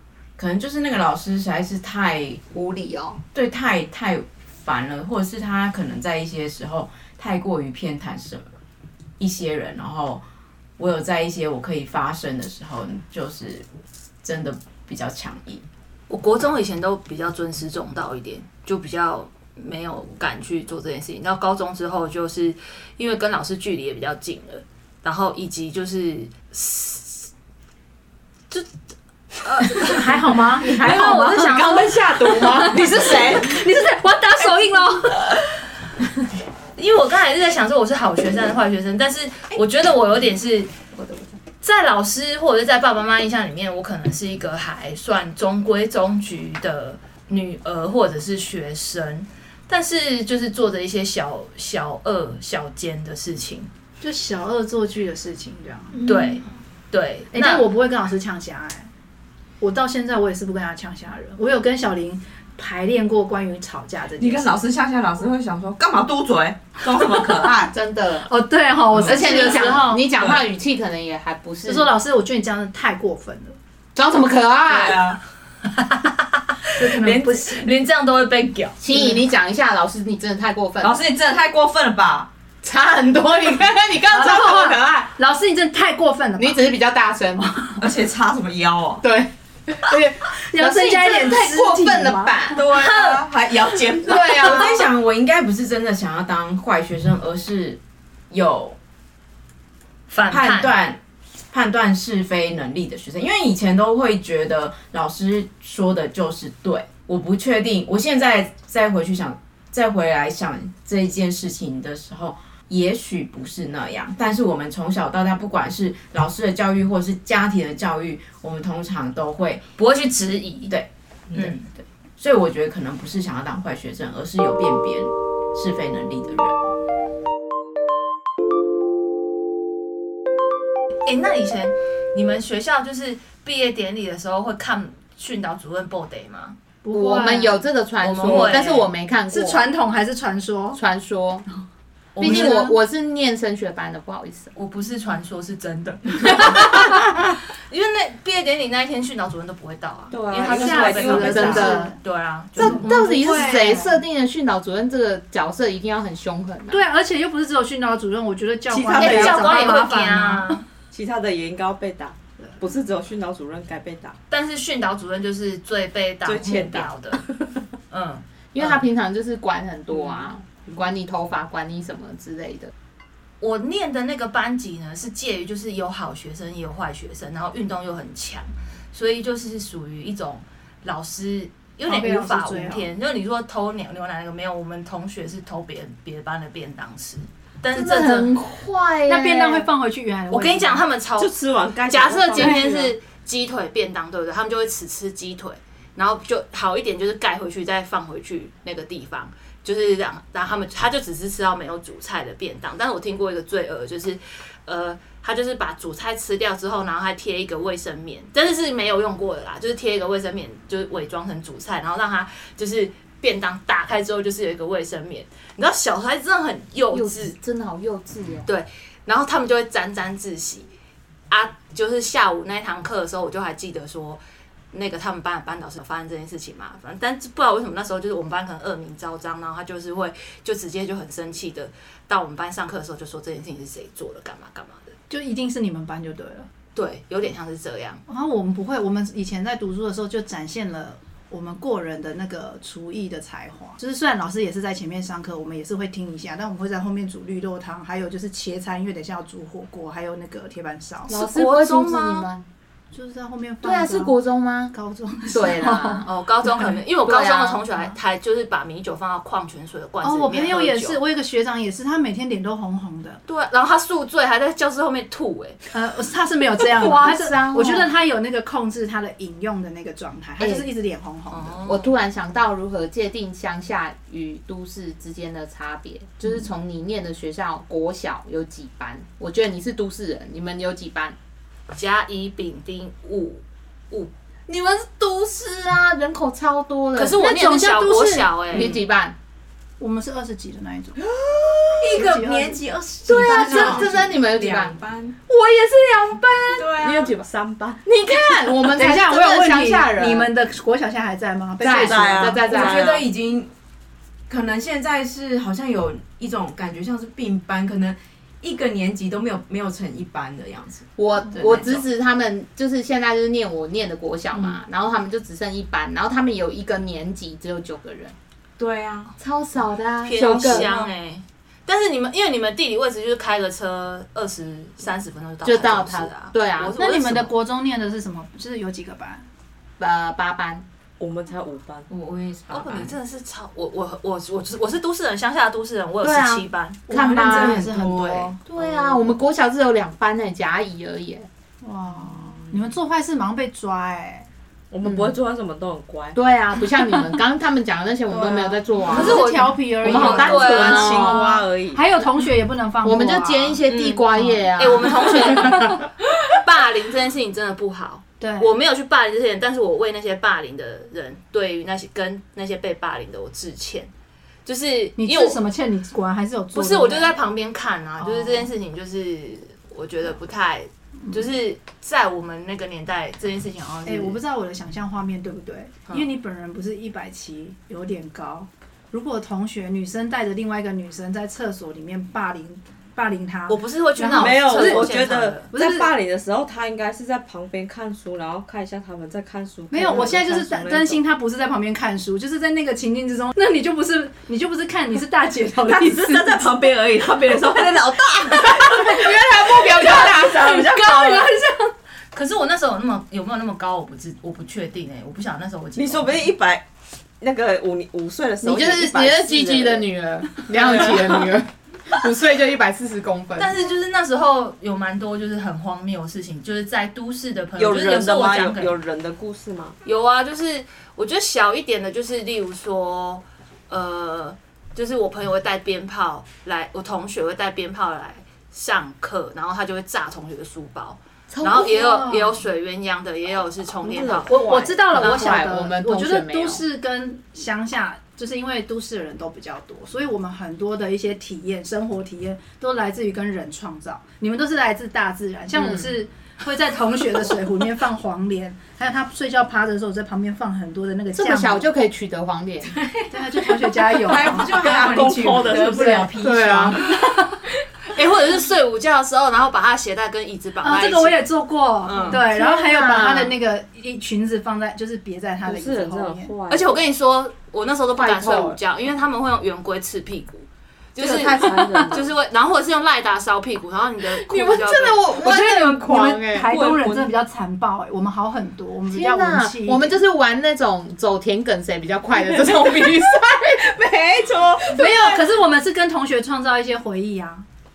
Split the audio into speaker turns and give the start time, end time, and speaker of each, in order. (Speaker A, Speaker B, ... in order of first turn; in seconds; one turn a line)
Speaker A: 0.4-2.4
Speaker B: 2.5-3.2
Speaker A: 3.3-8.5
Speaker A: 9.2-10.2
Speaker A: 10.8-13.7
Speaker A: 14.2-15.6
Speaker C: 16.1-27.3
Speaker C: 29.4-32.7
Speaker D: 29.8-31.6
Speaker B: 31.2-33.3
Speaker D: 32.4-35.3
Speaker E: 32.6-33.6
Speaker C: 36.8-40.7
Speaker B: 41.0-41.3
Speaker C: 41.6-53.7
Speaker D: 54.0-56.4
Speaker C: 56.0-57.7
Speaker D: 57.3-58.9
Speaker D: 59.6-64.6
Speaker E: 64.2-67.7
Speaker D: 67.0-70.2
Speaker B: 67.7-68.3
Speaker E: 69.0-69.4
Speaker B: 69.0-71.9
Speaker D: 71.7-73.6
Speaker B: 74.0-75.1
Speaker E: 74.7-75.2
Speaker C: 75.7-78.8
Speaker D: 76.8-77.6
Speaker B: 78.8-81.0
Speaker D: 78.9-79.2
Speaker E: 80.8-82.3
Speaker B: 82.6-85.1
Speaker D: 84.1-86.6
Speaker B: 86.4-87.7
Speaker E: 87.8-89.0
Speaker B: 89.0-89.3
Speaker D: 89.9-92.5
Speaker B: 90.5-92.6
Speaker E: 92.5-94.7
Speaker C: 92.7-93.1
Speaker B: 94.0-94.8
Speaker A: 94.0-98.8
Speaker C: 100.1-100.7
Speaker A: 100.3-119.6
Speaker C: 119.8-120.7
Speaker A: 120.7-121.6
Speaker C: 121.3-121.7
Speaker A: 122.2-126.6
Speaker C: 131.1-136.6
Speaker D: 136.8-137.6
Speaker B: 136.9-139.6
Speaker C: 138.0-138.9
Speaker D: 139.3-140.8
Speaker B: 140.7-141.4
Speaker C: 142.2-142.7
Speaker D: 142.2-142.8
Speaker B: 142.2-144.5
Speaker C: 144.6-147.1
Speaker C: 147.7-153.0
Speaker E: 150.1-151.8
Speaker D: 150.4-152.0
Speaker B: 151.2-151.9
Speaker B: 152.6-156.8
Speaker D: 152.6-154.0
Speaker D: 156.7-160.6
Speaker E: 158.7-159.8
Speaker C: 159.0-160.6
Speaker E: 160.9-164.2
Speaker C: 164.3-167.2
Speaker E: 166.2-167.6
Speaker C: 167.9-168.2
Speaker B: 168.5-172.7
Speaker C: 173.4-188.3
Speaker D: 181.8-182.9
Speaker B: 187.7-189.7
Speaker D: 189.1-190.8
Speaker C: 190.3-191.3
Speaker E: 191.2-192.9
Speaker C: 191.9-217.3
Speaker D: 192.4-192.7
Speaker B: 216.9-218.5
Speaker C: 218.5-220.7
Speaker C: 221.3-234.9
Speaker D: 235.1-236.5
Speaker C: 236.8-238.0
Speaker D: 238.1-251.2
Speaker C: 251.1-252.3
Speaker B: 251.1-252.5
Speaker D: 252.9-254.2
Speaker B: 253.6-254.7
Speaker D: 254.7-256.8
Speaker B: 255.3-256.1
Speaker C: 256.0-261.0
Speaker B: 257.0-257.6
Speaker D: 260.0-263.2
Speaker C: 263.3-265.6
Speaker D: 265.7-271.6
Speaker B: 266.8-267.9
Speaker B: 270.4-270.7
Speaker C: 271.3-271.9
Speaker B: 271.6-281.2
Speaker C: 281.7-284.1
Speaker B: 284.5-287.3
Speaker C: 286.9-288.8
Speaker D: 287.2-288.8
Speaker B: 288.5-289.2
Speaker D: 289.8-291.0
Speaker A: 291.1-295.2
Speaker D: 291.8-292.6
Speaker B: 293.1-294.8
Speaker C: 295.5-296.1
Speaker A: 296.5-297.1
Speaker B: 296.8-297.2
Speaker E: 297.0-297.8
Speaker B: 297.9-300.3
Speaker D: 298.5-302.4
Speaker B: 301.6-303.0
Speaker E: 301.6-302.9
Speaker A: 302.4-303.5
Speaker A: 304.3-311.8
Speaker B: 311.0-318.1
Speaker A: 318.6-319.1
Speaker B: 319.2-320.7
Speaker C: 320.0-327.3
Speaker E: 320.2-320.6
Speaker B: 325.4-326.8
Speaker D: 326.8-329.2
Speaker B: 329.8-330.6
Speaker E: 331.0-331.9
Speaker A: 331.9-332.9
Speaker C: 332.5-337.3
Speaker B: 336.0-337.7
Speaker D: 336.9-338.4
Speaker A: 337.3-338.3
Speaker B: 338.4-341.3
Speaker E: 338.6-339.0
Speaker D: 341.6-344.3
Speaker E: 344.7-346.2
Speaker B: 344.8-345.1
Speaker B: 346.1-351.2
Speaker D: 348.1-353.6
Speaker C: 348.9-350.9
Speaker E: 350.0-351.8
Speaker B: 352.8-355.9
Speaker C: 353.7-355.8
Speaker D: 354.2-355.5
Speaker C: 356.3-363.9
Speaker D: 358.2-358.5
Speaker C: 364.4-365.4
Speaker D: 365.0-367.1
Speaker C: 366.5-374.2
Speaker D: 368.0-368.5
Speaker D: 373.9-385.9
Speaker C: 383.5-385.5
Speaker E: 384.1-391.0
Speaker D: 389.7-396.6
Speaker E: 395.7-399.1
Speaker D: 397.2-401.7
Speaker B: 398.6-401.3
Speaker E: 399.6-401.1
Speaker C: 402.1-406.2
Speaker E: 405.8-406.7
Speaker E: 407.2-409.9
Speaker B: 408.4-413.5
Speaker E: 410.4-411.2
Speaker C: 413.4-418.7
Speaker E: 417.6-419.8
Speaker C: 419.8-434.4
Speaker B: 431.3-432.2
Speaker E: 433.8-434.8
Speaker D: 434.3-451.7
Speaker B: 434.9-436.6
Speaker C: 435.0-435.5
Speaker B: 445.5-445.9
Speaker B: 451.1-452.8
Speaker D: 453.1-456.1
Speaker A: 454.0-457.0
Speaker E: 454.1-456.1
Speaker B: 456.2-456.8
Speaker C: 457.9-461.2
Speaker D: 460.6-466.3
Speaker E: 461.9-462.2
Speaker B: 462.1-463.4
Speaker E: 465.4-466.8
Speaker C: 466.5-475.1
Speaker B: 467.9-468.6
Speaker E: 471.0-472.1
Speaker B: 474.1-476.5
Speaker D: 475.2-480.0
Speaker E: 476.5-477.1
Speaker B: 478.9-483.7
Speaker E: 483.2-485.2
Speaker D: 484.7-487.4
Speaker B: 484.9-485.1